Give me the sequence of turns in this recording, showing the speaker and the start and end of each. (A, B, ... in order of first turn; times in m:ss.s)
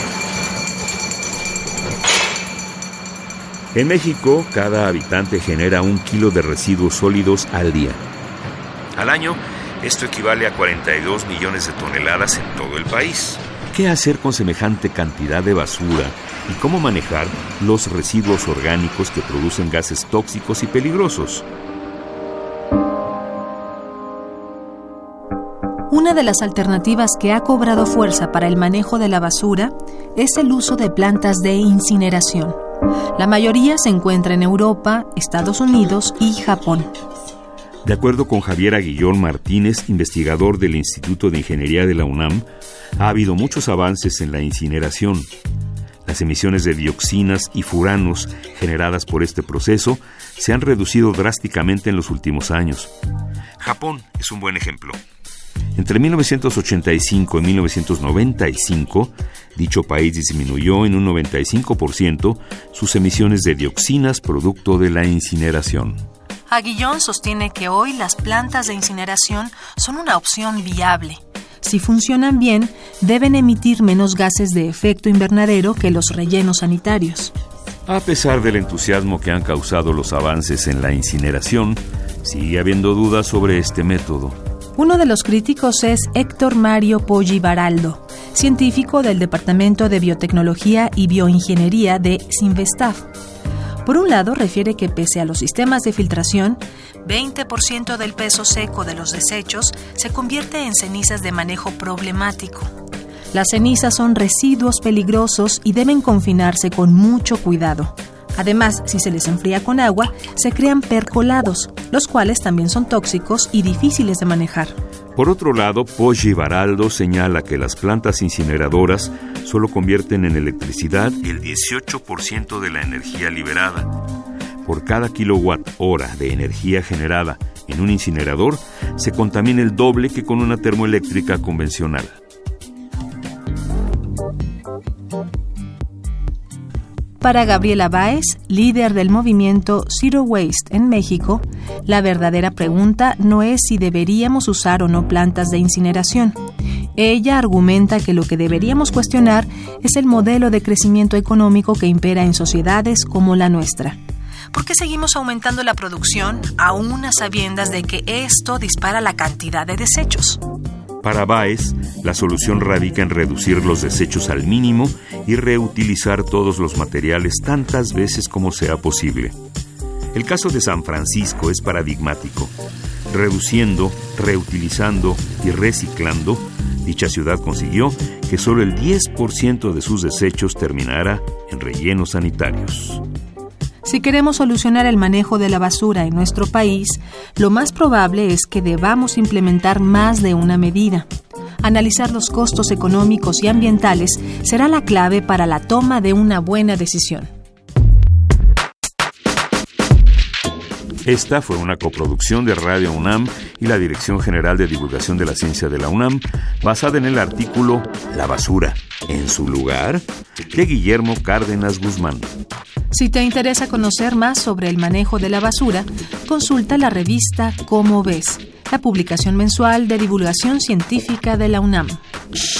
0:03.7-0:08.0 A
0:09.0-0:21.5 A
0:25.9-0:32.6 B
0:33.2-0:36.9 B
0:37.8-0:42.5 A
0:43.0-0:45.3 A
0:46.1-0:52.9 A
0:53.6-0:55.0 A
0:55.8-1:06.0 A
1:06.5-1:17.3 B
1:17.9-1:24.4 A
1:24.8-1:33.1 B
1:33.8-1:42.7 B
1:43.3-1:54.8 B
1:55.2-2:04.0 A
2:04.6-2:12.2 A
2:17.2-2:26.4 B
2:27.0-2:34.0 B
2:34.5-2:40.4 B
2:41.0-2:49.4 A
2:50.1-2:52.5 A
2:53.1-3:03.0 A
3:03.8-3:11.1 B
3:11.6-3:17.3 B
3:21.0-3:32.3 A
3:32.9-3:42.0 B